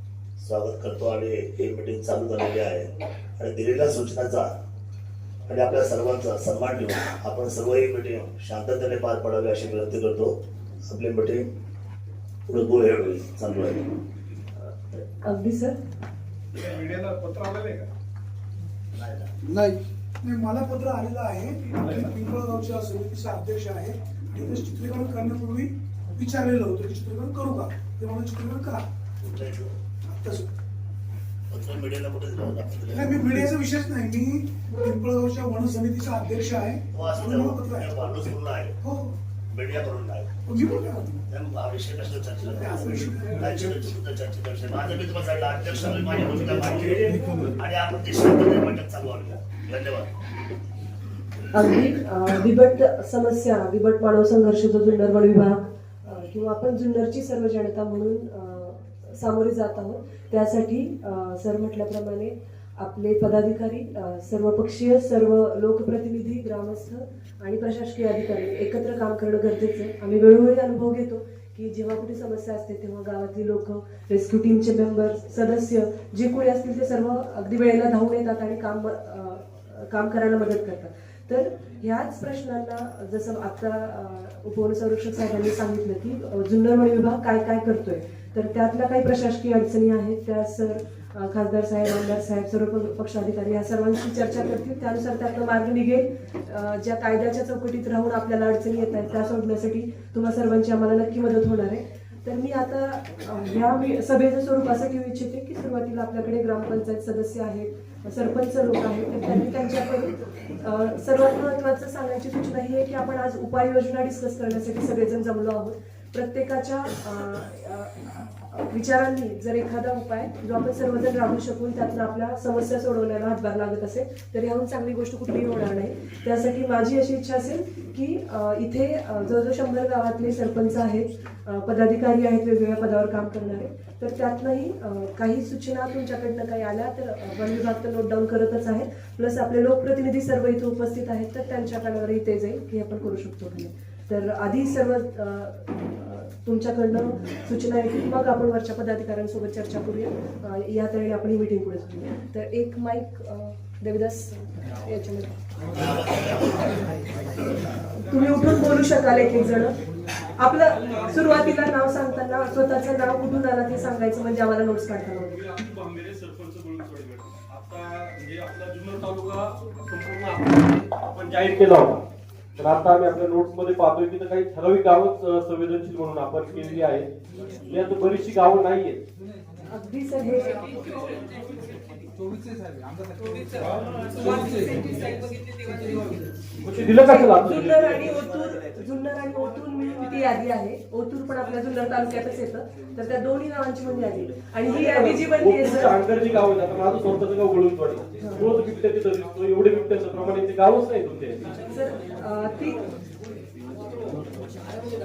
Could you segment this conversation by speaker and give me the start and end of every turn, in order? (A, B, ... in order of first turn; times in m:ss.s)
0:00.4-0:04.5 A
0:05.5-0:11.4 A
0:12.5-0:13.8 A
0:14.6-0:15.8 B
0:16.5-0:17.9 C
0:18.9-0:19.3 A
0:20.2-0:28.8 D
0:29.2-0:29.7 A
0:30.0-0:30.5 D
0:31.5-0:33.5 A
0:32.9-0:38.1 D
0:36.9-0:38.8 A
0:38.8-0:39.2 D
0:39.5-0:40.3 A
0:40.4-0:41.2 D
0:41.3-0:50.1 A
0:42.5-0:43.8 D
0:47.2-0:47.4 D
0:51.5-1:57.9 B
1:58.5-2:35.3 B
2:35.8-2:36.8 A
2:38.0-2:39.8 B
2:40.4-2:45.4 B
2:45.6-2:46.0 C
2:49.4-2:50.0 C
2:50.4-2:52.0 E
2:52.6-2:57.1 E
2:57.7-2:59.0 E
2:59.7-3:01.2 B
3:04.2-3:05.0 B
3:06.6-3:08.0 E
3:06.9-3:16.0 B
3:14.7-3:21.5 E
3:18.2-3:18.5 B
3:21.7-3:22.8 B